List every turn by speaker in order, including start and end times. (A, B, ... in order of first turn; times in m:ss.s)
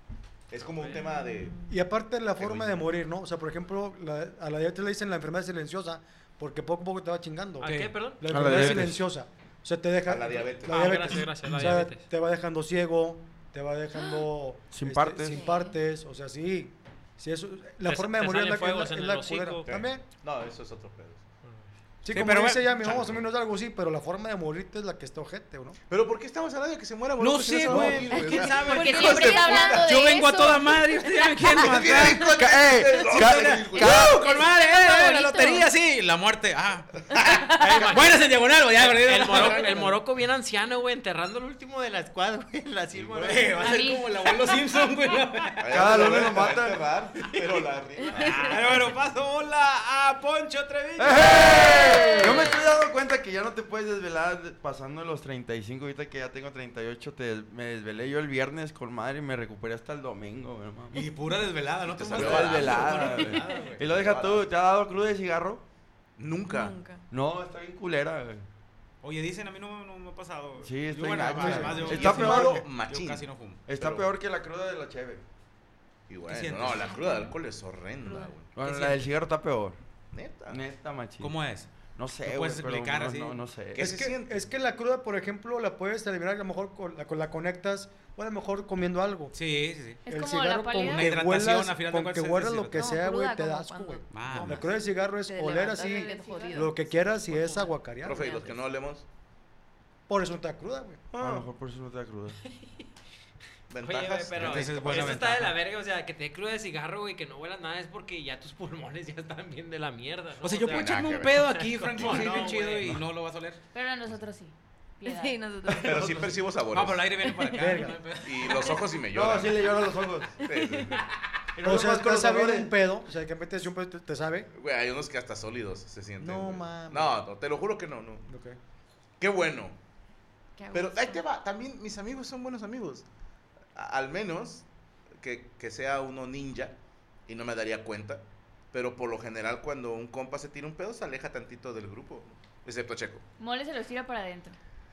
0:00.5-0:01.5 A
0:00.9-0:01.7 B
0:01.7-0:20.0 C
0:02.4-0:02.8 A
0:07.6-0:08.2 D
0:07.6-0:09.0 E
0:08.3-0:09.0 F
0:10.0-0:11.2 A
0:10.6-0:12.1 D
0:11.4-0:11.7 E
0:14.0-0:14.2 B
0:14.7-0:15.5 F
0:15.3-0:15.7 B
0:17.8-0:19.7 D
0:19.7-0:21.2 A
0:22.0-0:25.8 C
0:22.1-0:23.2 E
0:22.8-0:23.1 A
0:25.9-0:29.9 A
0:27.2-0:39.9 E
0:27.7-0:28.3 C
0:28.4-0:30.0 B
0:28.5-0:30.8 G
0:31.5-0:34.2 A
0:31.9-0:33.8 F
0:33.8-0:34.0 B
0:34.1-0:35.7 G
0:37.2-0:37.4 A
0:37.6-0:38.3 D
0:38.8-0:43.8 D
0:39.5-0:39.9 A
0:43.0-0:43.4 A
0:43.0-0:45.7 E
0:43.5-0:44.1 G
0:45.6-0:48.7 A
0:45.7-0:46.8 F
0:48.0-0:48.4 B
0:48.1-0:52.5 E
0:51.0-1:01.0 F
1:00.9-1:03.9 E
1:01.8-1:03.3 A
1:02.1-1:05.6 F
1:03.8-1:04.4 A
1:06.2-1:06.8 A
1:06.5-1:07.0 B
1:07.1-1:08.4 F
1:09.0-1:13.6 E
1:10.6-1:12.7 F
1:11.0-1:13.3 A
1:11.4-1:11.8 C
1:13.6-1:15.2 F
1:13.8-1:14.1 A
1:16.1-1:18.5 A
1:16.2-1:17.0 E
1:17.0-1:17.3 G
1:18.0-1:18.3 B
1:18.5-1:19.8 F
1:18.6-1:19.0 E
1:20.1-1:20.6 A
1:20.5-1:23.9 F
1:21.2-1:23.4 E
1:23.7-1:24.4 A
1:23.8-1:29.4 C
1:29.3-1:30.0 E
1:30.0-1:31.2 G
1:30.1-1:38.4 C
1:30.8-1:32.9 E
1:32.7-1:38.6 B
1:34.1-1:34.6 E
1:35.9-1:36.6 G
1:38.0-1:39.0 A
1:40.1-1:41.0 C
1:41.1-1:41.5 A
1:41.2-1:42.4 F
1:42.5-1:42.8 D
1:43.7-1:45.3 A
1:43.8-1:52.9 D
1:44.4-1:45.6 E
1:50.4-1:53.6 E
1:50.7-1:53.0 A
1:53.7-1:55.4 G
1:55.0-1:56.2 B
1:55.8-1:57.1 A
1:56.7-1:58.8 E
1:57.2-1:57.6 B
1:57.6-1:58.0 C
1:58.2-1:59.8 A
1:59.1-2:00.4 F
2:00.4-2:01.1 A
2:00.4-2:01.0 B
2:01.5-2:02.7 F
2:01.6-2:04.5 C
2:04.5-2:08.3 A
2:06.2-2:07.2 C
2:08.3-2:08.6 C
2:09.2-2:09.8 A
2:10.6-2:11.2 B
2:10.7-2:13.0 A
2:13.7-2:14.6 A
2:15.2-2:23.2 A
2:23.4-2:24.6 G